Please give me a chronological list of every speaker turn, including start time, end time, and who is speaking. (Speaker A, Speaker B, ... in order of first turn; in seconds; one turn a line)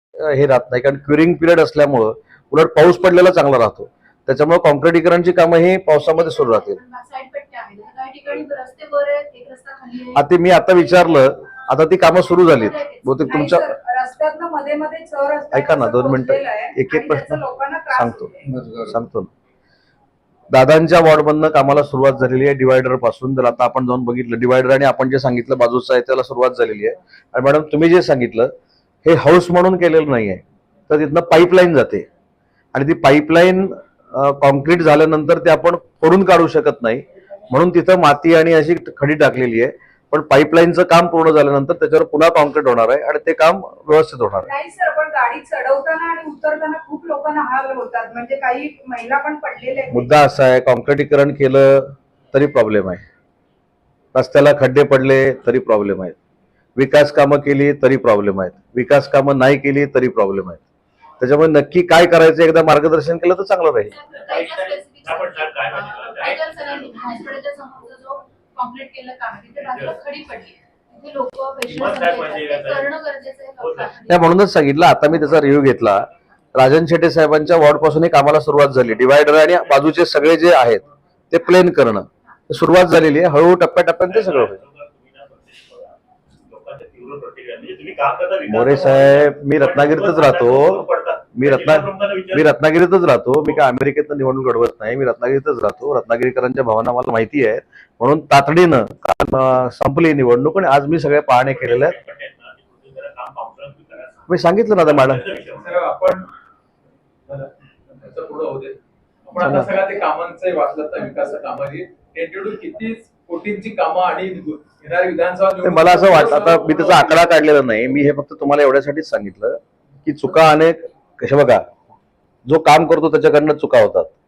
Speaker A: 0.2-6.8
Speaker B: 6.0-10.3
Speaker A: 10.1-13.7
Speaker B: 12.4-13.2
Speaker C: 13.3-18.4
Speaker A: 15.5-17.4
Speaker A: 17.9-19.3
Speaker A: 20.5-28.5
Speaker A: 29.1-32.1
Speaker A: 32.7-44.5
Speaker C: 44.4-50.1
Speaker A: 49.9-53.0
Speaker A: 54.1-56.2
Speaker A: 56.8-60.6
Speaker A: 61.2-63.9
Speaker B: 63.9-74.3
Speaker D: 64.1-66.8
Speaker D: 69.7-70.0
Speaker D: 71.7-72.9
Speaker D: 73.6-73.9
Speaker A: 74.1-84.6
Speaker D: 84.1-86.0
Speaker D: 86.5-92.5
Speaker A: 88.5-102.0
Speaker D: 101.4-104.2
Speaker A: 104.3-105.2
Speaker D: 104.8-105.7
Speaker E: 105.6-106.3
Speaker E: 108.0-108.8
Speaker E: 109.3-117.3
Speaker A: 109.4-109.7
Speaker A: 115.6-121.7
Speaker A: 122.5-124.1